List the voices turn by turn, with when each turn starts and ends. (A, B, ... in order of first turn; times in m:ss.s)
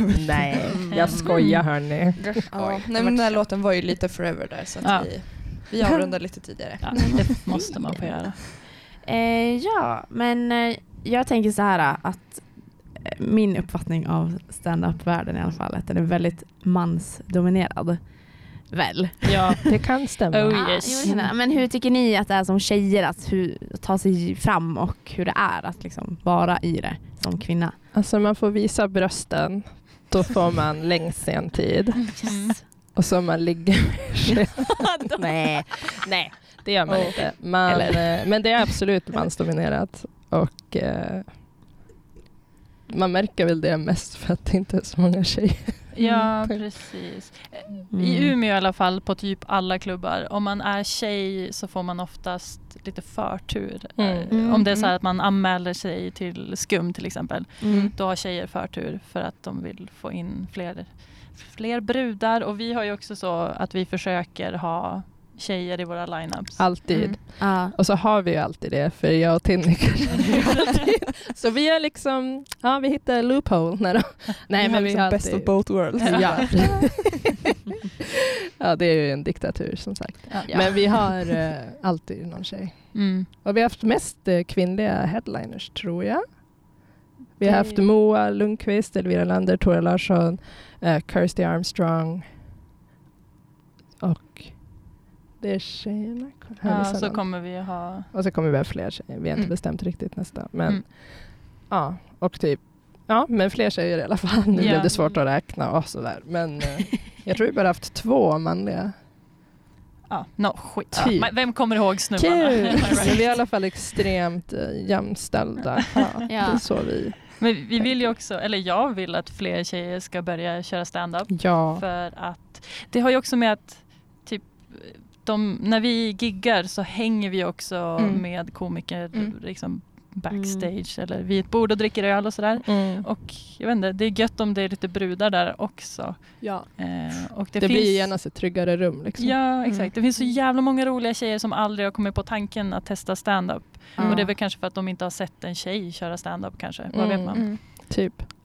0:00.1-0:02.4 A
0:00.8-0:01.5 B
0:01.0-0:01.8 C
0:02.2-0:03.6 B
0:02.5-0:07.4 D
0:04.8-0:05.7 C
0:06.8-0:08.4 C
0:06.9-0:19.7 B
0:19.2-0:21.3 C
0:19.7-0:20.7 A
0:20.5-0:27.8 B
0:27.9-0:41.3 A
0:32.2-0:32.6 C
0:32.2-0:32.6 B
0:34.9-0:35.7 B
0:36.9-0:37.2 D
0:37.6-0:38.6 B
0:42.9-0:46.5 A
0:45.9-1:07.1 C
0:46.0-0:46.3 B
0:47.9-0:48.4 B
0:54.0-0:54.4 A
0:54.3-0:54.7 B
0:57.6-0:57.9 B
0:57.7-0:57.9 D
1:06.6-1:17.3 A
1:06.9-1:07.2 D
1:07.4-1:07.8 B
1:14.6-1:17.3 D
1:16.0-1:16.7 C
1:18.6-1:26.5 A
1:20.5-1:20.8 B
1:22.9-1:23.3 C
1:27.4-1:32.3 A
1:27.4-1:27.8 C
1:34.0-1:48.9 A
1:36.6-1:38.1 C
1:44.6-1:45.0 C
1:44.6-1:45.2 B
1:50.1-1:53.4 C
1:50.9-1:57.9 A
1:56.0-1:56.2 D
1:56.3-1:56.6 B
1:57.4-2:18.3 C
2:01.3-2:01.8 A
2:08.0-2:09.4 D
2:10.3-2:10.7 B
2:12.6-2:13.1 A
2:16.4-2:16.7 A
2:17.5-2:19.4 A
2:19.2-2:27.6 C
2:19.7-2:20.4 B
2:24.0-2:24.3 B
2:24.0-2:24.3 D
2:26.9-2:28.3 A
2:27.3-2:27.6 D